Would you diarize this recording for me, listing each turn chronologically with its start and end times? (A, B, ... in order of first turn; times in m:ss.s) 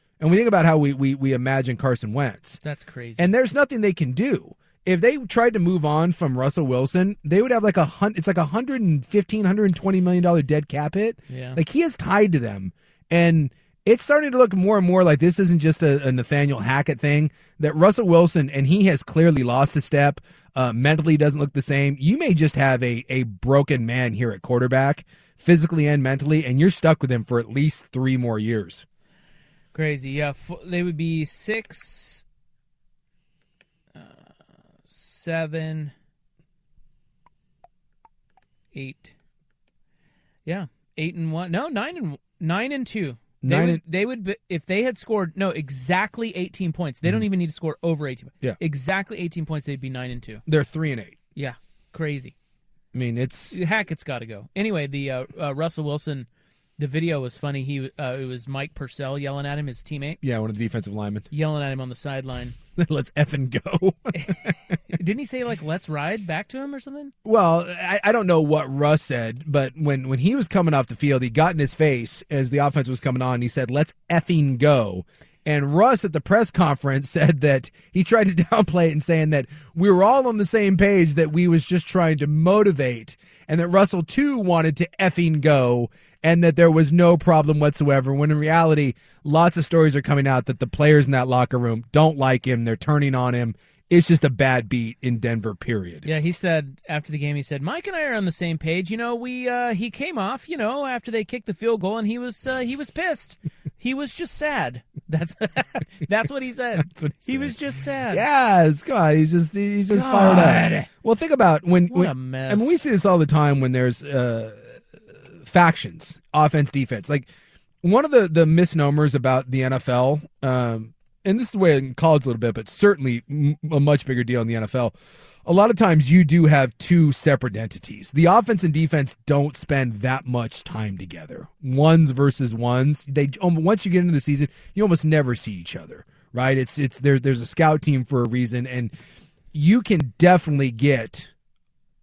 0:00.2-0:02.6 A
0:02.6-0:03.3 B
0:03.2-0:28.8 A
0:11.3-0:11.6 B
0:29.7-0:32.2 B
0:33.9-0:34.3 B
0:34.8-0:35.9 B
0:38.7-0:39.1 B
0:40.4-0:50.4 B
0:43.4-0:43.8 A
0:50.5-0:51.2 A
0:51.3-0:52.3 B
0:52.9-0:53.6 A
0:53.5-1:00.2 B
1:00.2-1:01.3 A
1:01.3-1:02.6 B
1:02.8-1:04.5 A
1:04.1-1:07.1 B
1:07.2-1:36.1 A
1:36.0-1:48.2 B
1:46.8-1:47.5 A
1:48.1-1:54.8 A
1:49.9-1:50.9 B
1:51.9-1:52.8 B
1:55.3-1:57.3 A
1:57.8-2:18.9 A
2:19.5-2:21.3 A